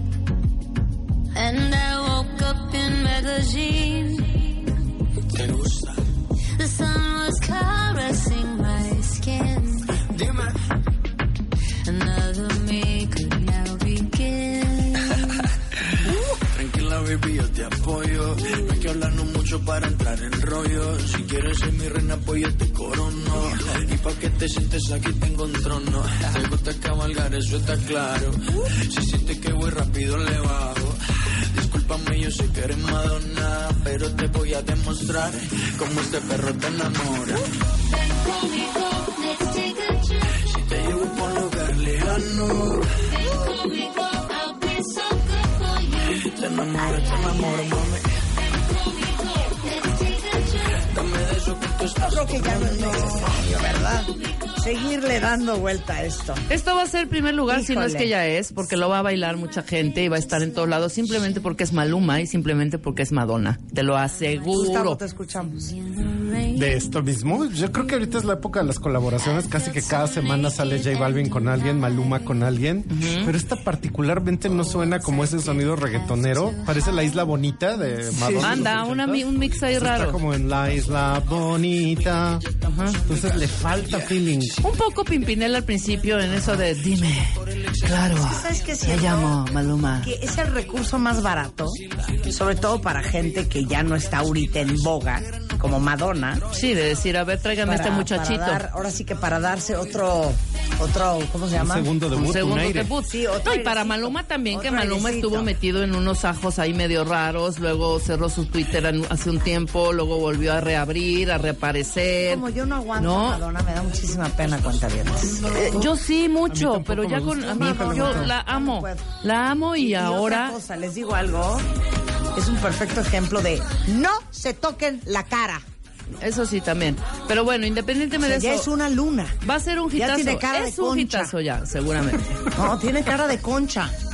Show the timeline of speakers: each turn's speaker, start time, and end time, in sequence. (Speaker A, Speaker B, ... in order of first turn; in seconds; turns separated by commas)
Speaker A: 1.3-4.6, Speaker B: 5.3-6.0, Speaker A: 6.6-9.9, Speaker B: 10.1-10.5, Speaker A: 11.9-15.4, Speaker B: 16.5-31.0, Speaker B: 31.5-37.4, Speaker A: 37.7-40.3, Speaker B: 40.3-42.9, Speaker A: 43.1-47.7, Speaker B: 46.1-48.1, Speaker A: 48.4-50.9, Speaker B: 50.8-53.2, Speaker C: 52.0-56.5, Speaker D: 56.5-65.0, Speaker C: 57.5-58.1, Speaker C: 64.5-65.8, Speaker A: 65.9-66.7, Speaker E: 66.5-82.4, Speaker A: 69.3-71.0, Speaker D: 72.9-73.3, Speaker A: 74.7-77.3, Speaker C: 78.1-78.6, Speaker D: 78.3-80.2, Speaker D: 82.7-83.0, Speaker E: 83.1-84.5, Speaker B: 83.1-84.5, Speaker D: 84.6-90.1, Speaker C: 88.0-89.4, Speaker C: 90.0-96.4, Speaker D: 96.5-98.6, Speaker C: 97.7-101.9, Speaker E: 101.5-102.9, Speaker D: 102.1-112.5, Speaker C: 103.0-105.5, Speaker C: 112.2-115.7, Speaker D: 113.0-113.4, Speaker D: 115.5-120.6, Speaker E: 115.6-115.9, Speaker E: 116.5-118.3, Speaker C: 117.5-119.1, Speaker C: 119.8-121.7, Speaker C: 122.3-125.6, Speaker D: 126.2-128.7, Speaker C: 128.2-129.4, Speaker D: 129.4-132.5, Speaker C: 129.9-131.3, Speaker C: 132.5-133.9